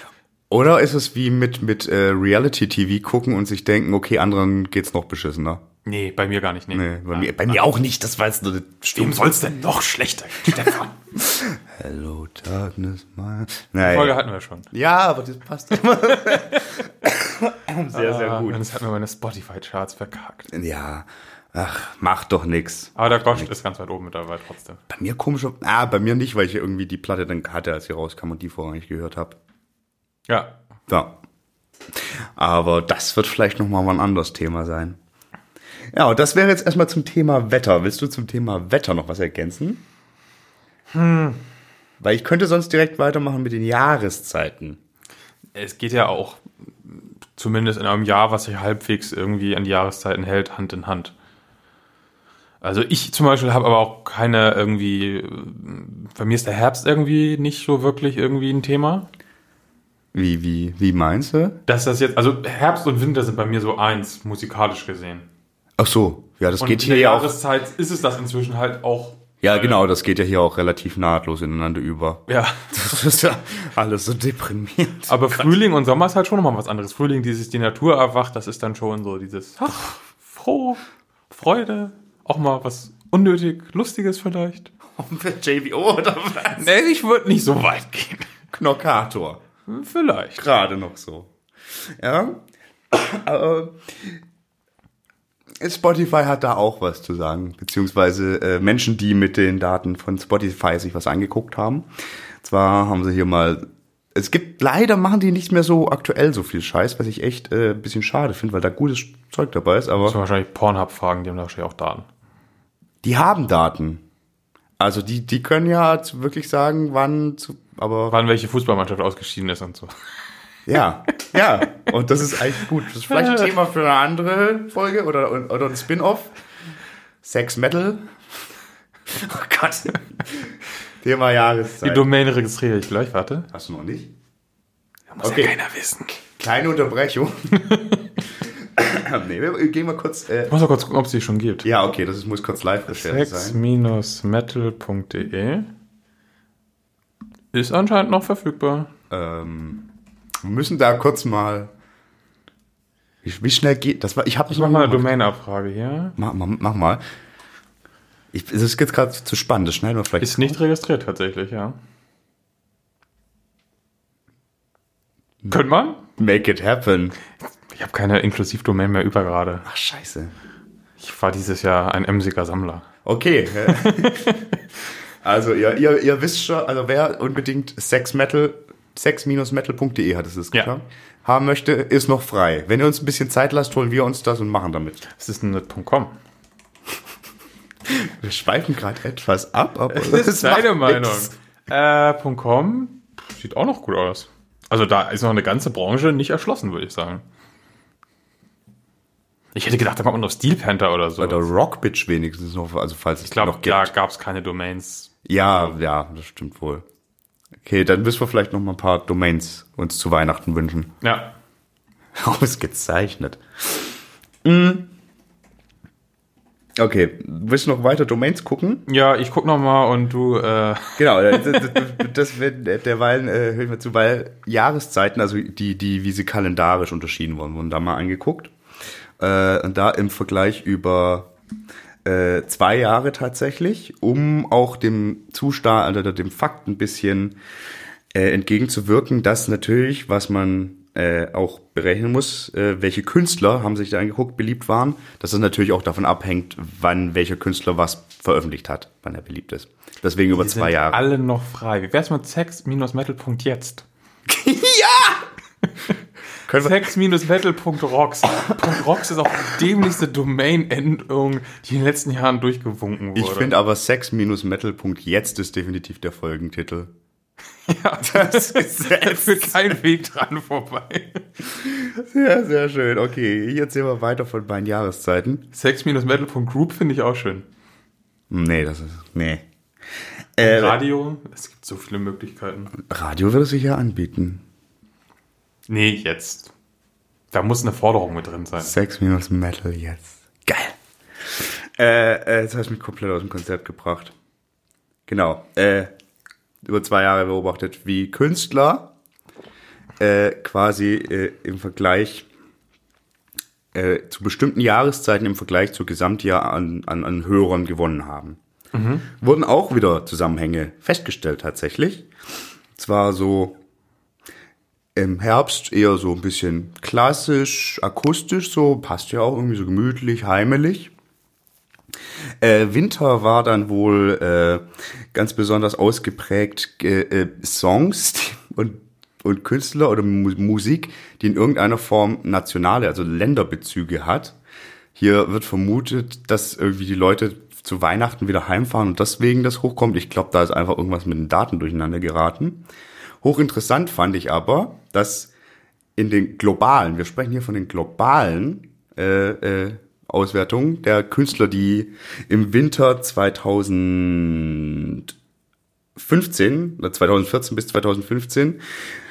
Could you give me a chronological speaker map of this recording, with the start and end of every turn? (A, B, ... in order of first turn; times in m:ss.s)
0:00.5-0:05.6 A
0:05.8-0:07.6 B
0:06.7-0:09.5 A
0:09.0-0:11.0 B
0:10.6-0:14.2 A
0:13.8-0:14.7 B
0:14.7-0:18.6 A
0:16.3-0:16.6 B
0:17.9-0:20.5 B
0:20.5-0:23.5 A
0:23.0-0:24.8 B
0:24.9-0:29.4 A
0:30.3-0:30.6 B
0:30.9-0:31.2 A
0:32.4-0:35.0 A
0:35.9-0:39.8 A
0:40.9-0:41.4 B
0:42.0-0:44.8 A
0:45.6-0:51.1 B
0:52.6-0:59.1 B
1:00.1-1:01.6 A
1:01.7-1:05.2 B
1:05.8-1:07.4 A
1:06.6-1:09.8 B
1:09.4-1:15.6 A
1:12.3-1:13.0 B
1:15.1-1:24.7 B
1:24.9-1:26.7 A
1:26.5-1:28.3 B
1:28.5-1:29.4 A
1:29.7-1:30.4 B
1:30.4-1:31.3 A
1:32.0-1:34.2 A
1:35.6-1:41.9 A
1:42.4-1:43.6 A
1:44.1-1:50.2 A
1:50.0-1:52.1 B
1:53.0-1:54.0 A
1:54.8-1:58.2 A
1:58.1-1:59.9 B
2:00.7-2:06.3 A
2:03.1-2:03.5 B
2:07.2-2:08.1 A
2:09.1-2:10.5 A
2:11.0-2:12.1 A
2:11.8-2:13.5 B
2:13.5-2:14.1 A
2:15.1-2:16.2 B
2:15.2-2:15.6 A
2:16.2-2:17.7 A
2:17.6-2:18.1 B
2:18.5-2:20.6 A
2:20.5-2:21.7 B
2:21.6-2:23.6 A
2:22.9-2:25.7 B
2:27.5-2:28.9 B
2:29.1-2:29.9 A
2:30.4-2:31.7 A
2:33.2-2:35.1 A
2:34.5-2:36.2 B
2:36.2-2:37.0 A
2:38.3-2:40.6 A
2:40.2-2:41.8 B
2:45.5-2:46.0 B
2:46.2-2:47.2 A
2:47.7-2:49.7 B
2:49.7-2:50.3 A
2:51.0-2:52.9 B
2:53.0-2:54.3 A
2:53.7-2:54.6 B
2:55.2-3:05.0 A
3:05.1-3:06.2 B
3:07.9-3:11.3 A
3:09.9-3:17.2 B
3:19.6-3:21.5 B
3:21.2-3:23.9 A
3:23.2-3:25.8 B
3:25.2-3:26.8 A
3:27.6-3:30.9 A
3:31.0-3:31.3 B
3:32.2-3:34.9 A
3:36.8-3:38.8 A
3:38.9-3:42.0 B
3:41.0-3:48.5 A
3:49.2-3:51.3 A
3:52.0-3:57.4 A
3:58.1-4:11.0 A
4:10.4-4:13.9 B
4:14.3-4:15.2 A
4:16.5-4:16.9 A
4:16.6-4:23.5 B
4:23.2-4:26.9 A
4:27.7-4:31.2 B
4:28.0-4:29.8 A
4:31.6-4:35.4 A
4:35.5-4:37.5 B
4:38.3-4:39.4 A
4:40.4-4:40.8 A
4:40.4-4:42.7 B
4:42.8-4:44.4 A
4:45.7-4:46.5 B
4:47.3-4:48.7 B
4:48.6-4:54.1 A
4:55.1-4:55.9 A
4:56.6-4:58.9 A
5:00.0-5:02.3 A
5:03.7-5:08.4 A
5:08.7-5:09.1 B
5:09.1-5:12.1 A
5:12.8-5:13.6 A
5:15.0-5:20.9 A
5:22.4-5:34.4 A
5:35.0-5:42.7 A
5:43.2-5:45.3 A
5:46.0-5:55.1 A
5:56.0-5:58.6 A